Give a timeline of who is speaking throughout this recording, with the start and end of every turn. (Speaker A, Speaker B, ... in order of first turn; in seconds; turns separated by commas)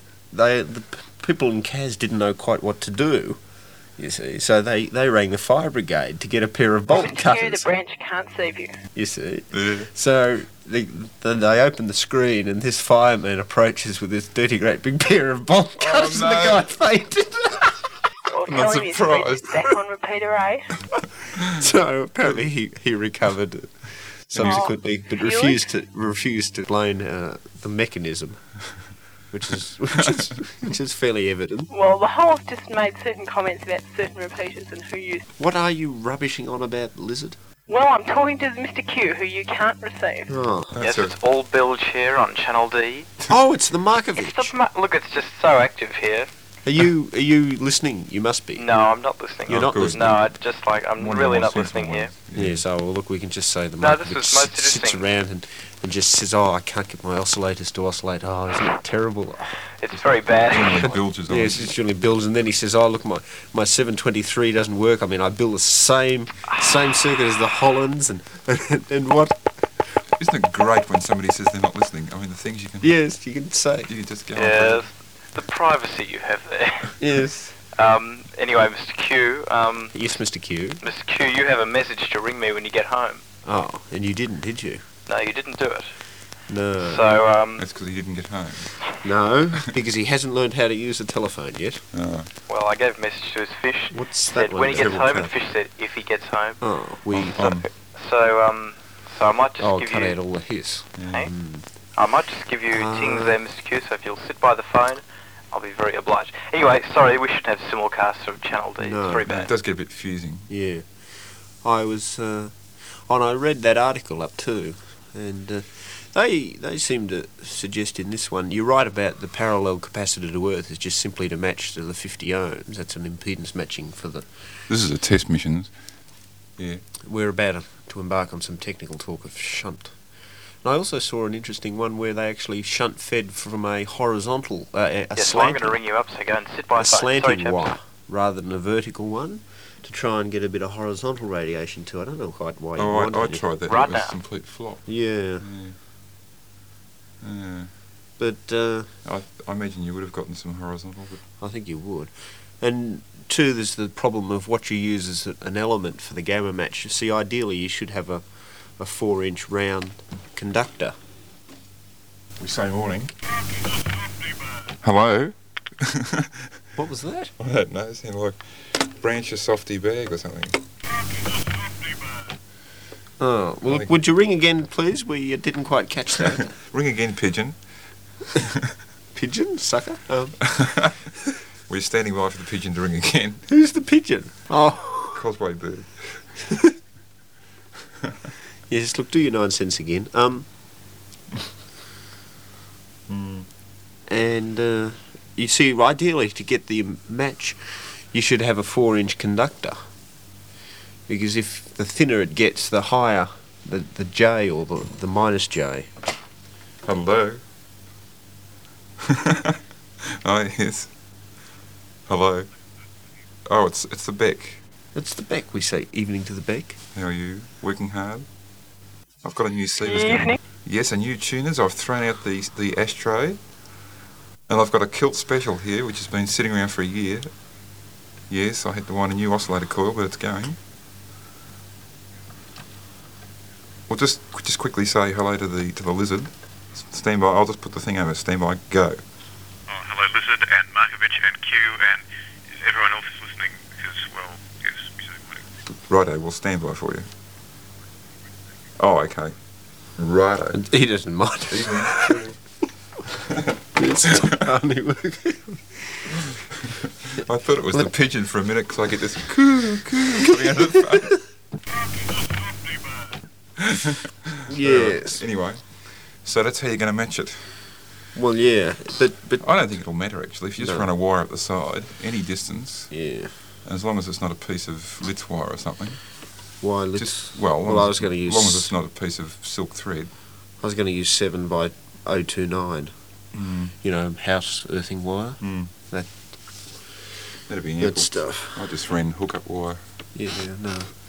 Speaker A: 0.3-3.4, Speaker A: 4.0-7.7, Speaker B: 6.9-8.7, Speaker A: 8.9-17.7, Speaker C: 9.5-9.9, Speaker C: 15.8-16.6, Speaker B: 18.3-20.7, Speaker C: 18.4-19.7, Speaker A: 21.5-28.4, Speaker C: 24.3-24.7, Speaker B: 24.4-25.6, Speaker A: 29.3-31.7, Speaker C: 30.0-30.3, Speaker B: 31.7-35.2, Speaker A: 35.4-37.4, Speaker B: 37.7-40.3, Speaker A: 40.3-40.7, Speaker C: 40.7-41.1, Speaker D: 40.8-43.1, Speaker A: 43.3-44.5, Speaker D: 44.2-46.3, Speaker A: 46.6-48.6, Speaker D: 48.6-52.1, Speaker C: 49.5-50.2, Speaker A: 49.5-50.1, Speaker C: 51.0-52.6, Speaker A: 52.3-69.5, Speaker D: 53.8-55.0, Speaker D: 59.8-60.9, Speaker C: 60.5-61.7, Speaker C: 70.2-72.9, Speaker A: 72.8-73.9, Speaker C: 73.9-74.8, Speaker D: 74.3-76.9, Speaker A: 77.0-77.5, Speaker D: 77.7-79.9, Speaker A: 79.9-80.8, Speaker D: 80.8-83.2, Speaker A: 83.4-84.8, Speaker D: 85.1-85.9, Speaker A: 86.5-87.1, Speaker D: 86.8-87.6, Speaker C: 87.6-88.8, Speaker A: 89.0-91.8, Speaker C: 91.9-92.3, Speaker D: 92.5-96.6, Speaker A: 93.9-95.3, Speaker A: 96.6-97.4, Speaker C: 97.1-97.7, Speaker D: 97.4-100.2, Speaker A: 99.6-101.6, Speaker C: 101.0-101.3, Speaker D: 102.0-109.5, Speaker A: 102.7-103.4, Speaker A: 108.8-109.2, Speaker C: 109.2-110.5, Speaker A: 110.5-111.0, Speaker A: 111.6-124.3, Speaker C: 124.7-125.7, Speaker C: 126.6-126.8, Speaker A: 127.0-130.0, Speaker A: 130.6-135.8, Speaker D: 135.1-137.7, Speaker A: 136.8-143.4, Speaker C: 142.8-145.8, Speaker D: 143.7-144.2, Speaker A: 144.8-145.4, Speaker C: 147.2-147.7, Speaker A: 148.2-148.9, Speaker C: 149.0-151.2, Speaker A: 151.4-158.2, Speaker A: 158.8-160.9, Speaker C: 162.4-163.1, Speaker C: 164.8-166.5, Speaker A: 166.8-167.3, Speaker C: 167.4-170.6, Speaker A: 173.2-176.5, Speaker C: 173.7-173.9, Speaker C: 176.3-177.6, Speaker C: 178.3-178.7, Speaker A: 179.1-180.4, Speaker C: 180.4-181.0, Speaker C: 181.7-183.4, Speaker A: 183.5-185.2, Speaker C: 185.1-186.2, Speaker A: 188.7-190.5, Speaker C: 193.1-193.5, Speaker A: 194.1-199.8, Speaker A: 201.1-205.9, Speaker C: 206.8-207.4, Speaker C: 209.0-210.9, Speaker C: 212.1-212.5, Speaker C: 213.5-214.6, Speaker A: 214.9-216.8, Speaker C: 216.9-218.3, Speaker C: 219.2-223.4, Speaker B: 219.9-220.4, Speaker C: 224.5-227.3, Speaker C: 228.3-230.6, Speaker C: 233.9-239.0, Speaker E: 239.7-245.4, Speaker C: 245.9-247.1, Speaker C: 248.8-249.3, Speaker C: 250.0-250.6, Speaker A: 250.5-252.2, Speaker C: 251.5-252.4, Speaker C: 253.1-253.6, Speaker A: 253.8-256.2, Speaker C: 256.8-261.2, Speaker C: 263.6-267.6, Speaker A: 264.5-265.2, Speaker A: 268.1-269.5, Speaker C: 269.4-272.9, Speaker A: 270.6-270.9, Speaker A: 272.9-273.3, Speaker C: 273.6-276.0, Speaker A: 276.6-278.7, Speaker C: 276.9-280.1, Speaker A: 280.6-282.9, Speaker C: 283.3-283.7, Speaker A: 283.8-286.1, Speaker C: 285.4-285.7, Speaker C: 287.5-289.8, Speaker A: 287.8-288.7, Speaker A: 290.1-290.9